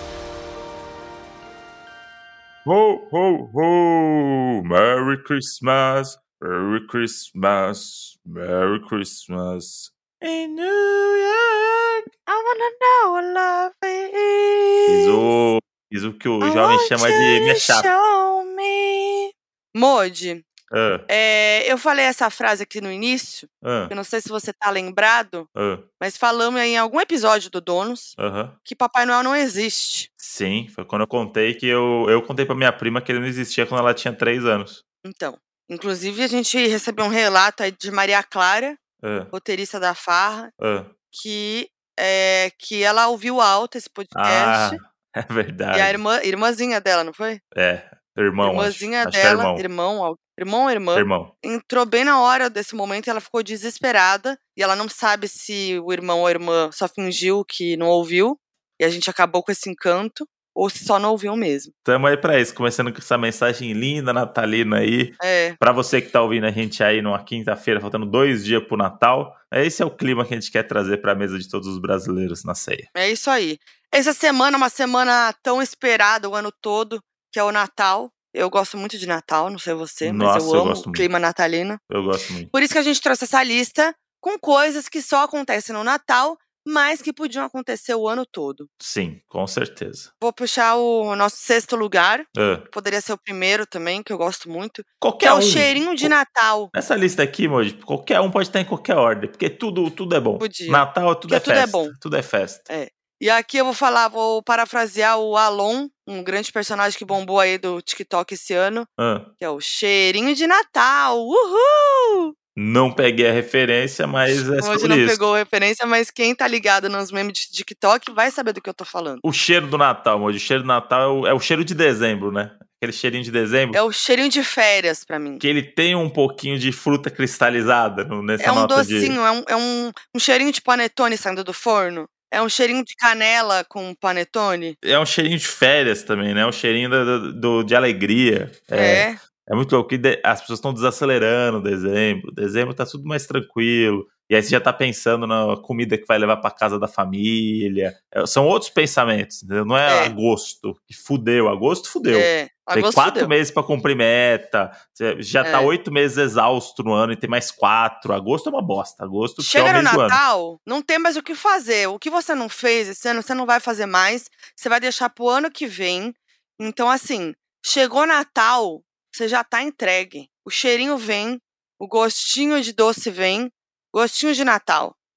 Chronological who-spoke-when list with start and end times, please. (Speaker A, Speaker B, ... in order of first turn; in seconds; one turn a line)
Speaker A: 2.6-12.0
Speaker B: 12.3-15.3
Speaker A: 14.9-17.9
Speaker B: 16.4-20.4
Speaker A: 20.7-21.1
Speaker B: 21.1-30.1
Speaker A: 23.6-23.9
Speaker A: 25.6-25.9
Speaker A: 28.2-28.6
Speaker A: 30.2-34.8
Speaker B: 35.0-38.8
Speaker A: 39.0-39.3
Speaker B: 39.3-40.5
Speaker A: 40.6-40.9
Speaker B: 41.1-44.8
Speaker A: 44.1-46.0
Speaker B: 45.7-47.4
Speaker A: 47.5-49.6
Speaker B: 48.4-61.7
Speaker A: 51.0-51.3
Speaker A: 61.9-72.9
Speaker B: 65.2-65.6
Speaker B: 72.9-81.8
Speaker A: 80.0-81.1
Speaker A: 81.9-82.5
Speaker B: 82.5-88.7
Speaker A: 88.8-90.1
Speaker B: 90.2-96.7
Speaker A: 92.3-92.7
Speaker A: 95.0-96.2
Speaker A: 96.7-102.7
Speaker B: 100.4-101.9
Speaker B: 102.7-112.3
Speaker A: 109.0-109.3
Speaker A: 112.5-115.2
Speaker B: 114.4-119.2
Speaker A: 119.2-123.8
Speaker B: 123.7-125.4
Speaker A: 125.4-129.2
Speaker B: 128.4-134.8
Speaker A: 134.8-160.2
Speaker B: 138.7-139.2
Speaker B: 149.8-150.1
Speaker B: 152.1-153.3
Speaker B: 155.4-155.7
Speaker B: 159.4-174.9